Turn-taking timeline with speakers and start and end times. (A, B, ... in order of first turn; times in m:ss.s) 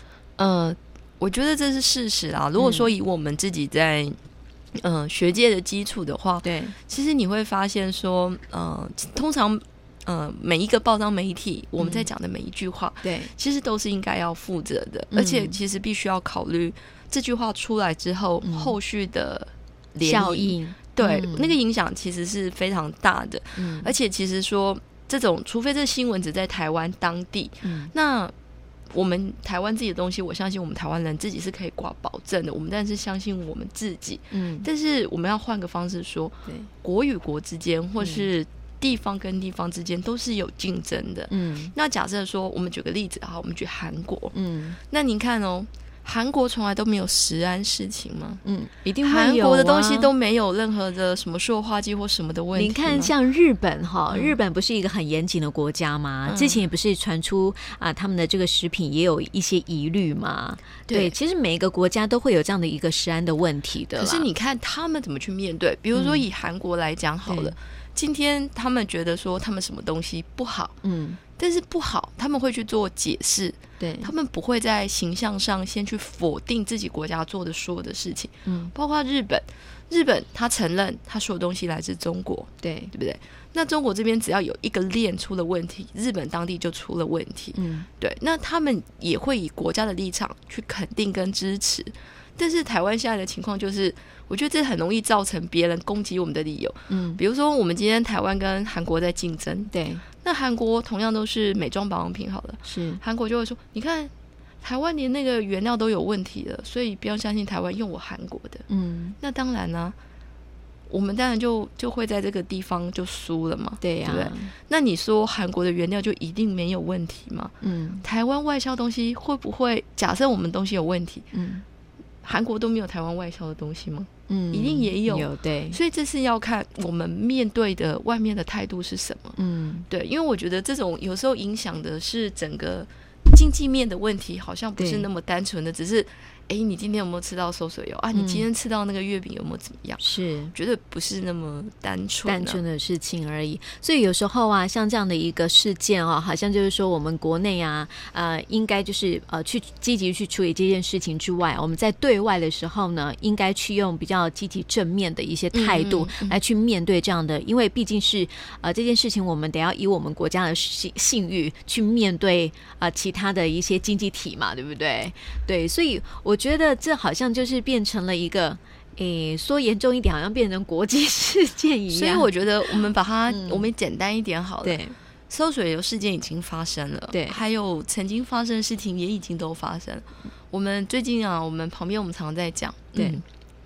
0:00.4-0:04.2 A
0:02.6-0:02.9 B
0:04.8-0:28.3 A
0:06.4-0:06.8 B
0:11.8-0:12.1 B
0:13.0-0:13.3 B
0:15.1-0:15.6 B
0:18.4-0:18.7 B
0:20.0-0:21.6 B
0:23.6-0:23.9 B
0:27.6-0:27.9 B
0:28.9-0:44.4 A
0:34.3-0:34.7 B
0:38.0-0:38.3 B
0:41.3-0:41.7 B
0:44.3-0:44.8 B
0:44.9-0:48.4 A
0:48.4-0:50.1 B
0:49.0-0:53.1 A
0:52.5-1:04.3 B
0:54.1-0:54.4 A
0:56.2-0:56.6 A
1:00.9-1:01.1 A
1:04.0-1:10.8 A
1:06.0-1:06.2 B
1:07.3-1:07.5 B
1:10.8-1:11.2 B
1:11.4-1:44.1 A
1:13.8-1:14.1 B
1:18.5-1:18.7 B
1:22.6-1:22.9 B
1:27.6-1:27.9 B
1:36.9-1:37.2 B
1:39.7-1:40.0 B
1:42.7-1:43.0 B
1:44.6-1:48.6 A
1:48.7-1:49.2 B
1:49.2-1:50.0 A
1:50.9-2:01.3 A
1:53.8-1:54.5 B
1:57.6-1:58.0 B
2:01.3-2:01.6 B
2:02.2-2:09.4 A
2:04.3-2:05.8 B
2:09.4-2:09.9 B
2:09.9-2:20.0 A
2:14.8-2:15.1 B
2:18.2-2:18.4 B
2:20.0-2:20.5 B
2:20.5-2:22.6 A
2:22.3-2:53.7 B
2:35.5-2:36.4 A
2:51.9-3:03.2 A
2:54.6-2:55.0 B
2:57.1-2:57.4 B
3:03.0-3:03.2 B